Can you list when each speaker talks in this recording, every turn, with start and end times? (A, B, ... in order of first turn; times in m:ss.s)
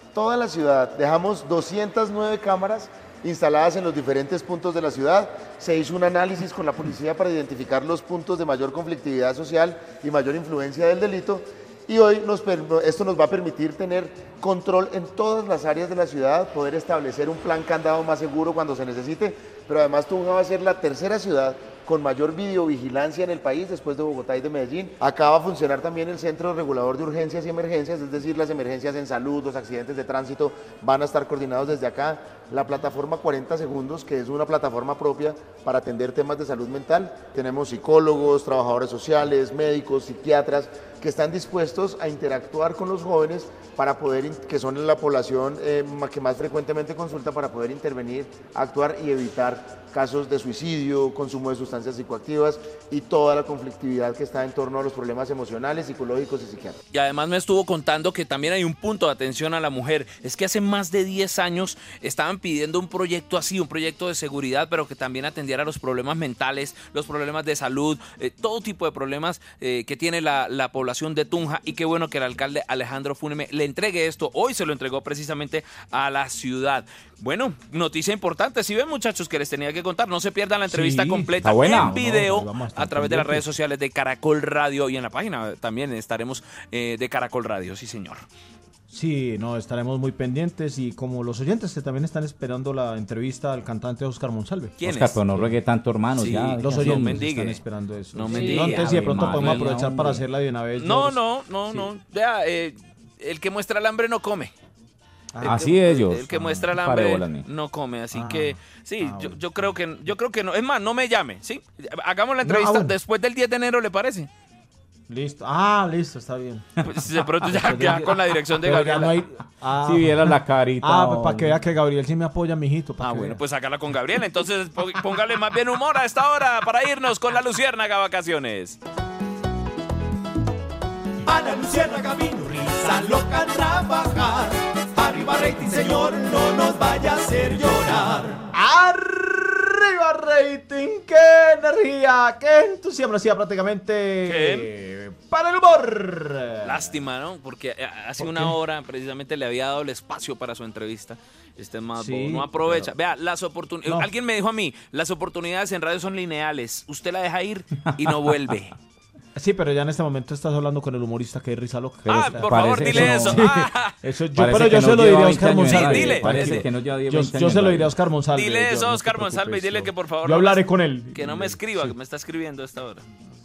0:00.1-0:56.8 A
0:56.9-1:28.3 B
1:20.7-1:23.5 C
1:21.4-1:22.0 D
1:28.9-1:34.8 C
1:34.8-1:35.2 B
1:34.8-1:37.6 D
1:35.3-1:35.6 C
1:36.2-1:37.6 B
1:36.6-1:41.9 C
1:38.1-1:39.7 B
1:38.3-1:40.3 D
1:40.8-1:44.5 B
1:45.3-1:46.1 C
1:45.4-1:47.5 D
1:45.4-1:54.3 B
1:48.1-1:49.6 C
1:52.4-1:53.0 C
1:55.1-1:56.7 C
1:56.8-1:59.2 B
1:57.4-2:03.4 C
1:59.8-2:01.6 D
2:03.0-2:08.8 B
2:11.2-2:18.5 E
2:18.5-2:26.9 C
2:24.2-2:24.7 B
2:26.6-2:38.7 B
2:28.2-2:28.6 C
2:32.0-2:32.9 C
2:39.4-2:51.9 C
2:42.0-2:43.6 D
2:42.1-2:44.0 B
2:44.3-2:48.0 D
2:45.5-2:46.7 B
2:48.3-2:53.0 B